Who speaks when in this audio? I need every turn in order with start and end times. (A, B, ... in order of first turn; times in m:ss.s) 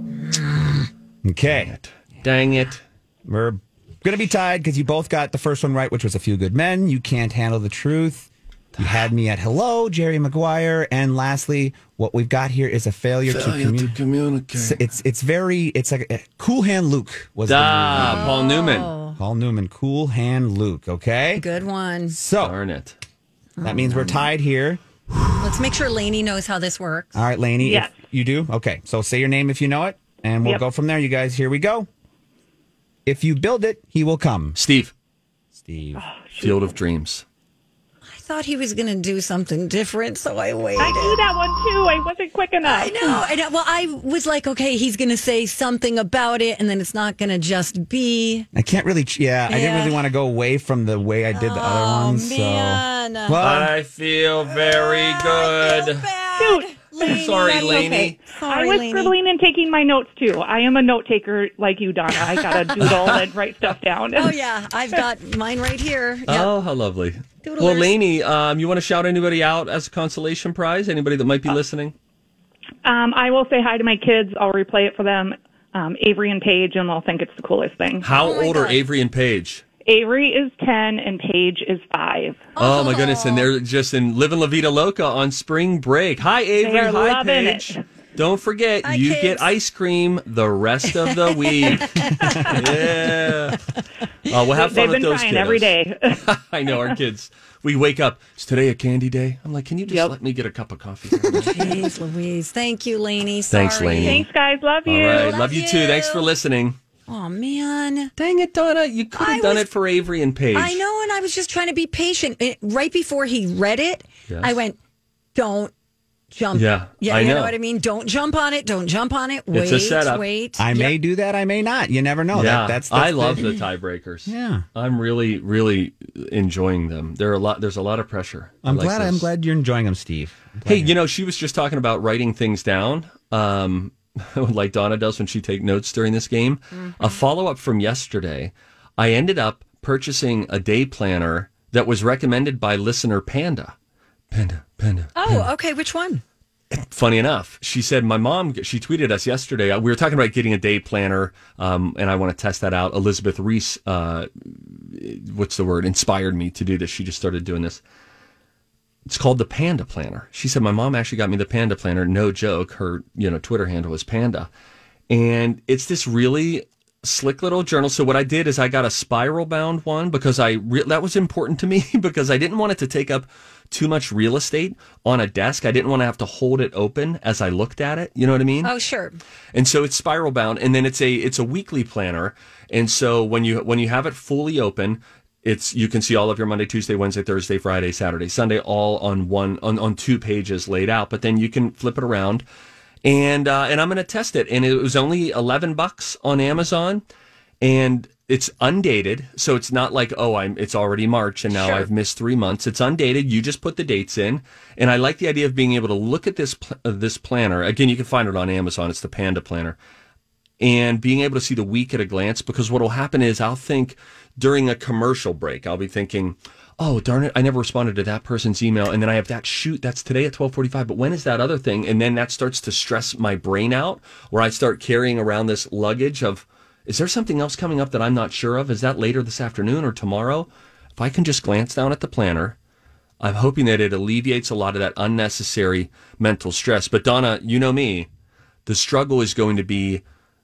0:01.2-0:01.7 A
0:01.4-0:02.8 B
0:03.3-0:14.0 A
0:13.3-0:14.8 B
0:14.6-0:18.3 A
0:17.5-0:18.9 B
0:18.0-0:19.2 C
0:19.2-0:21.4 A
0:21.4-0:22.2 C
0:22.1-0:22.6 A
0:22.4-0:23.0 B
0:23.6-0:24.3 C
0:23.6-0:24.8 A
0:25.4-0:27.2 C
0:27.2-0:31.9 A
0:27.6-0:27.9 D
0:33.1-0:34.6 A
0:34.6-0:34.9 B
0:35.6-0:36.0 A
0:36.0-0:36.6 D
0:36.4-0:37.2 B
0:38.1-0:41.2 C
0:40.8-0:43.2 D
0:42.6-0:48.5 C
0:48.5-0:53.7 A
0:49.5-0:50.0 C
0:51.3-0:53.4 C
0:53.4-0:56.1 B
0:54.8-0:59.2 C
0:56.4-1:04.3 D
0:57.0-0:58.2 B
1:02.8-1:03.3 B
1:04.2-1:06.5 C
1:06.3-1:11.9 B
1:07.4-1:07.9 C
1:12.8-1:18.1 D
1:18.0-1:19.6 B
1:18.2-1:18.8 C
1:19.8-1:22.5 D
1:22.6-1:23.5 C
1:22.6-1:33.6 B
1:26.6-1:27.8 D
1:28.8-1:29.5 C
1:31.1-1:32.8 C
1:32.2-1:32.8 D
1:34.3-1:41.5 B
1:34.5-1:37.0 D
1:39.9-1:40.2 D
1:41.3-1:44.3 C
1:43.5-1:44.3 B
1:44.0-1:45.4 D
1:44.9-1:46.8 B
1:45.0-1:46.2 C
1:47.1-1:48.1 C
1:48.2-1:50.8 B
1:49.2-1:49.7 C
1:50.6-1:54.8 C
1:54.3-1:54.6 B
1:55.4-1:55.7 C
1:56.3-2:00.9 C
1:56.5-1:57.6 B
1:59.5-2:00.2 B
2:00.6-2:03.5 A
2:02.3-2:09.3 B
2:04.3-2:04.6 A
2:08.6-2:11.0 A
2:10.7-2:23.8 B
2:16.7-2:17.2 C
2:24.3-2:25.5 B
2:25.2-2:26.2 C
2:26.7-2:37.8 B
2:39.1-2:44.5 B
2:45.1-2:58.7 B
2:58.6-2:59.2 C
2:59.5-3:12.5 B
3:13.0-3:17.0 B
3:17.6-3:29.8 B
3:21.5-3:21.9 C
3:30.6-3:52.6 B
3:53.2-3:58.1 B
3:58.7-4:00.0 B